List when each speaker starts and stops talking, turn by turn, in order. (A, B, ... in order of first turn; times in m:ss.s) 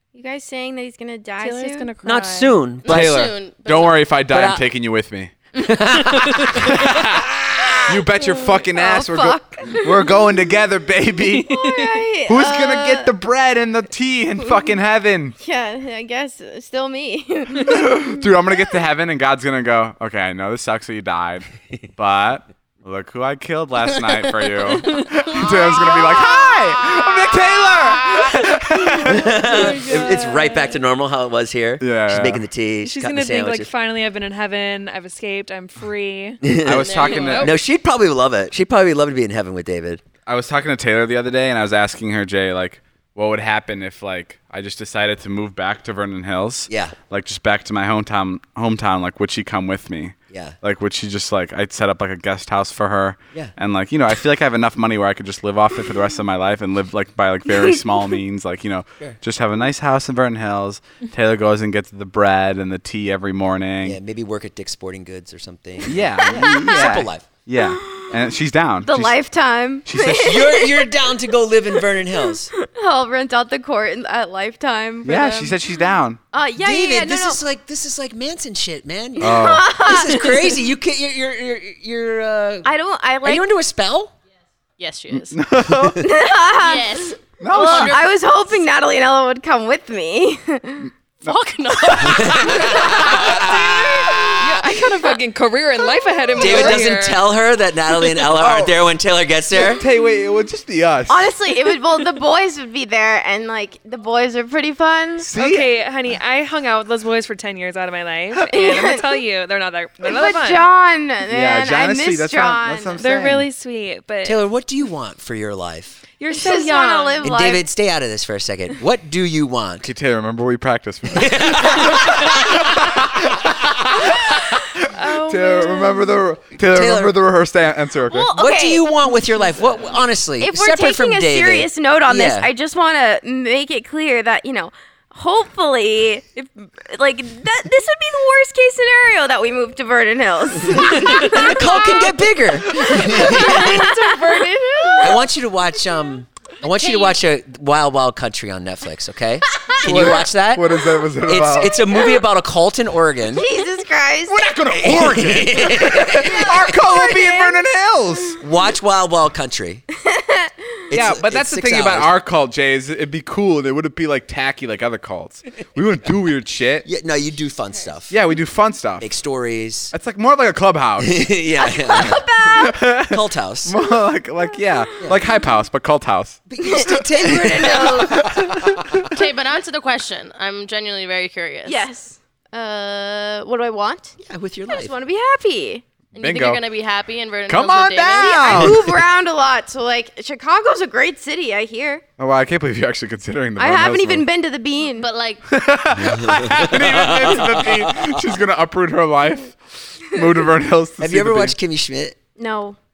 0:00.1-0:02.0 A
0:01.4-0:02.6 B
0:02.0-0:03.2 C
0:02.8-0:04.1 D
0:02.8-0:05.3 E
0:04.3-0:04.6 C
0:05.6-0:07.8 C
0:06.1-0:07.3 E
0:07.8-0:11.7 E
0:07.9-0:10.2 A
0:11.4-0:13.1 A
0:11.5-0:12.0 B
0:12.2-0:15.3 E
0:14.4-0:14.8 A
0:15.4-0:18.3 A
0:17.7-0:29.6 E
0:24.9-0:26.1 B
0:29.0-0:30.7 B
0:29.0-0:33.7 C
0:31.8-0:32.4 E
0:32.8-0:36.4 B
0:36.4-0:40.0 C
0:36.6-0:37.5 E
0:36.7-0:37.5 D
0:37.0-0:37.5 B
0:40.2-1:04.0 E
0:46.7-0:47.0 C
0:50.3-0:50.6 C
1:03.8-1:07.2 C
1:05.8-1:09.2 E
1:06.4-1:06.9 A
1:07.5-1:08.2 A
1:08.8-1:11.0 A
1:09.8-1:10.4 E
1:10.1-1:12.5 C
1:12.6-1:17.4 A
1:15.0-1:16.2 E
1:16.6-1:22.7 C
1:19.2-1:20.6 A
1:19.2-1:19.7 E
1:22.6-1:23.5 A
1:23.2-1:24.1 C
1:24.8-1:25.4 D
1:25.1-1:26.0 E
1:25.7-1:25.9 C
1:26.0-1:30.9 A
1:26.6-1:28.6 D
1:27.4-1:28.0 E
1:31.2-1:34.4 D
1:32.0-1:33.5 C
1:32.8-1:33.4 E
1:34.3-1:37.3 B
1:36.3-1:39.8 C
1:36.4-1:36.8 E
1:38.2-1:38.8 E
1:39.5-1:41.3 E
1:41.1-1:45.3 A
1:45.2-1:45.7 E
1:45.3-1:50.7 B
1:48.5-1:49.2 A
1:50.0-1:53.0 A
1:51.3-1:53.5 E
1:53.0-1:54.4 B
1:54.2-1:56.0 C
1:56.2-1:57.2 B
1:56.3-1:57.6 A
1:57.2-1:59.9 C
1:59.8-2:08.3 E
2:01.1-2:02.8 C
2:04.8-2:06.2 B
2:06.6-2:07.2 C
2:08.0-2:09.0 A
2:08.3-2:12.5 C
2:10.4-2:22.2 A
2:20.7-2:23.8 C
2:22.8-2:25.2 A
2:23.3-2:25.1 B
2:25.0-2:33.4 C
2:26.7-2:27.1 A
2:29.8-2:31.8 E
2:31.8-2:32.2 A
2:33.3-2:34.5 A
2:34.2-2:38.4 E
2:34.7-2:36.7 C
2:36.2-2:37.6 A
2:38.4-2:39.8 C
2:40.1-2:40.5 A
2:40.9-2:42.1 C
2:40.9-2:46.8 E
2:46.8-2:48.1 C
2:48.1-2:49.1 E
2:49.0-2:49.9 C
2:49.9-2:51.3 E
2:51.0-2:52.2 C
2:51.6-2:52.8 A
2:52.5-2:59.1 E
2:53.0-2:53.7 C
2:56.5-2:58.2 C
2:56.6-2:58.3 A
2:59.1-3:01.8 D
3:01.6-3:04.1 A
3:04.2-3:04.9 C
3:04.7-3:05.8 A
3:06.1-3:06.6 E
3:06.1-3:08.7 D
3:07.5-3:09.0 E
3:08.2-3:12.0 A
3:12.2-3:14.2 E
3:13.6-3:15.1 A
3:15.0-3:15.4 D
3:15.5-3:21.6 E
3:16.0-3:18.2 C
3:21.0-3:22.2 C
3:22.4-3:22.8 A